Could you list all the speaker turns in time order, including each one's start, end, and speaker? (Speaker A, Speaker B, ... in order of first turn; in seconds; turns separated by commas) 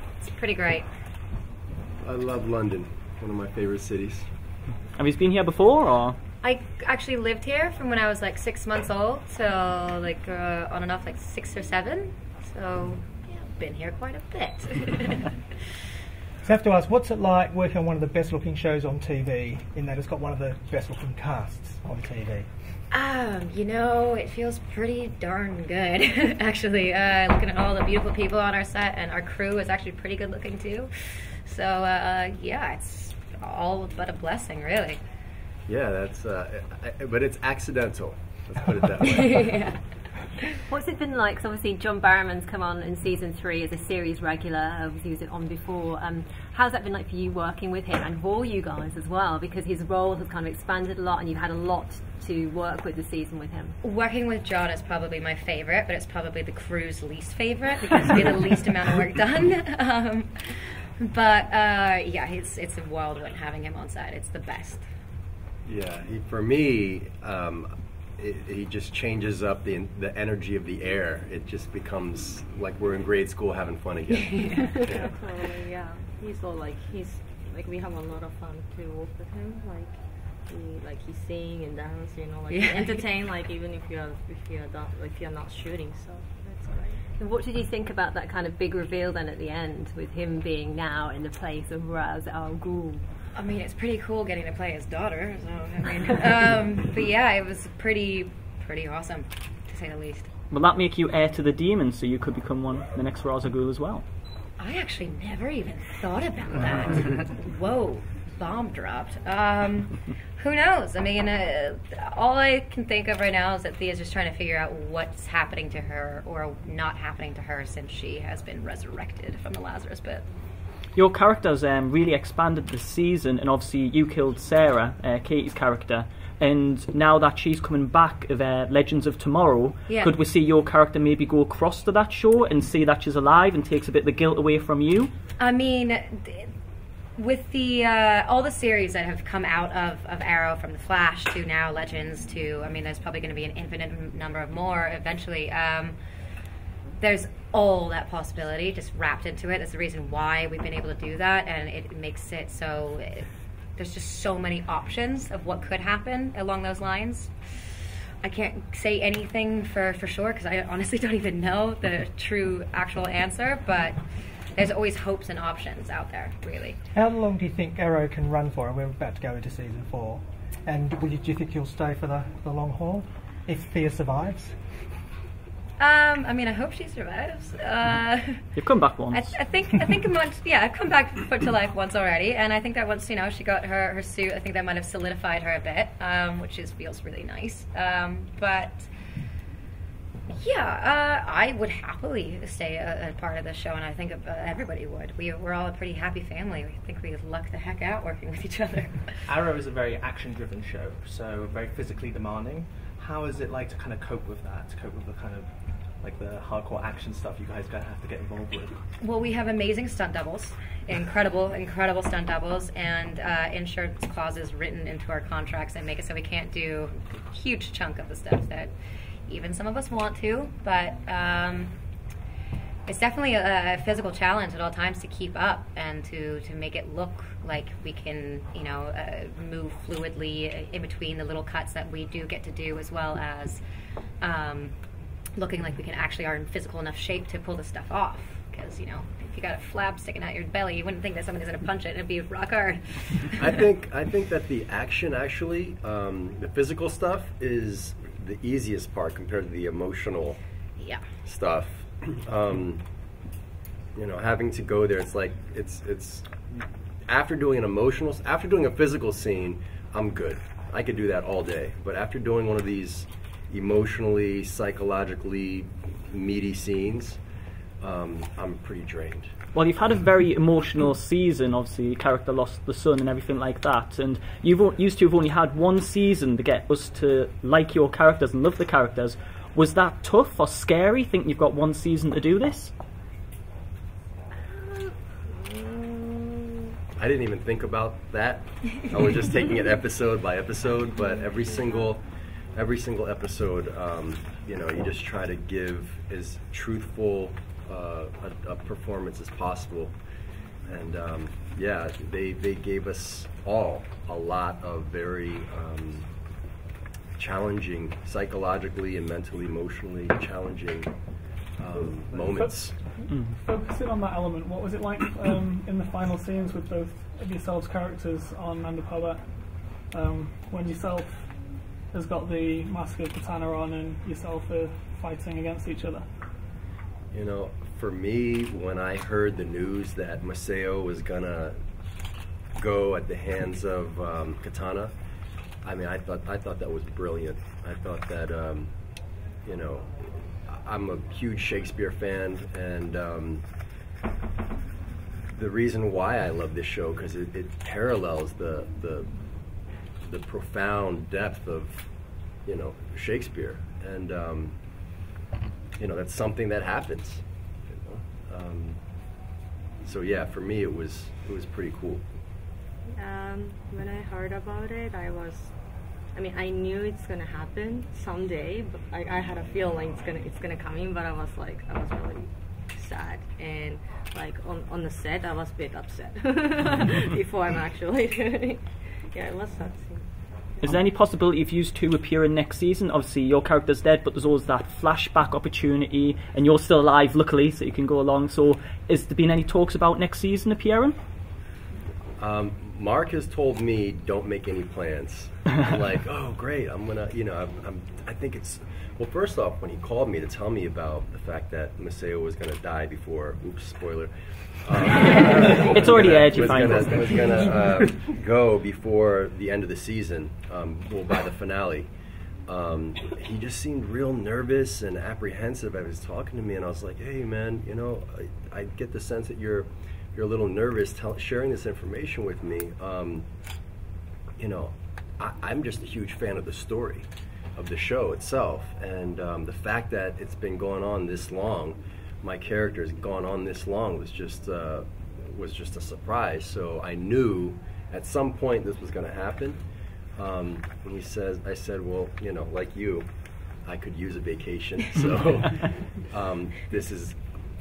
Speaker A: 0.2-0.9, Speaker B: 2.0-4.3, Speaker C: 5.0-6.2, Speaker A: 6.4-15.4, Speaker D: 16.4-22.5, Speaker A: 22.9-35.0, Speaker B: 35.7-39.6, Speaker A: 39.0-39.8, Speaker E: 40.7-53.8, Speaker A: 53.8-64.8, Speaker B: 65.6-75.1, Speaker A: 74.2-74.8, Speaker F: 74.7-87.0, Speaker A: 82.5-83.0, Speaker E: 87.2-93.0, Speaker A: 93.3-100.3, Speaker C: 100.5-104.0, Speaker A: 104.6-120.2, Speaker C: 121.0-135.1, Speaker A: 129.9-130.1, Speaker A: 135.4-136.5, Speaker A: 137.2-145.9, Speaker A: 147.0-153.2, Speaker A: 153.8-164.0, Speaker A: 164.6-166.8, Speaker D: 166.9-174.6, Speaker A: 175.8-178.5, Speaker C: 178.6-179.4, Speaker A: 179.1-188.9, Speaker A: 190.3-199.2, Speaker G: 199.3-208.8, Speaker A: 209.0-218.7, Speaker A: 219.3-221.7, Speaker A: 222.9-233.6, Speaker A: 234.2-234.7, Speaker A: 235.4-243.4, Speaker B: 243.4-250.4, Speaker A: 250.8-251.0, Speaker B: 251.2-252.8, Speaker B: 253.9-267.2, Speaker B: 267.8-269.3, Speaker C: 269.5-282.7, Speaker B: 286.9-292.0, Speaker B: 292.5-299.9, Speaker B: 300.7-306.1, Speaker B: 307.2-310.9, Speaker B: 311.6-312.8, Speaker H: 312.2-326.1, Speaker C: 313.1-313.4, Speaker B: 327.1-331.6, Speaker B: 332.5-334.9, Speaker B: 335.6-338.7, Speaker B: 339.4-343.4, Speaker B: 345.3-349.1, Speaker B: 350.0-351.9, Speaker B: 352.4-354.6, Speaker B: 355.8-358.8, Speaker B: 359.8-362.0, Speaker F: 362.9-365.6, Speaker F: 366.1-380.1, Speaker C: 380.6-390.9, Speaker B: 392.2-411.9, Speaker C: 405.5-407.6, Speaker B: 412.4-423.3, Speaker B: 424.4-439.6, Speaker B: 440.1-443.1, Speaker B: 443.6-447.2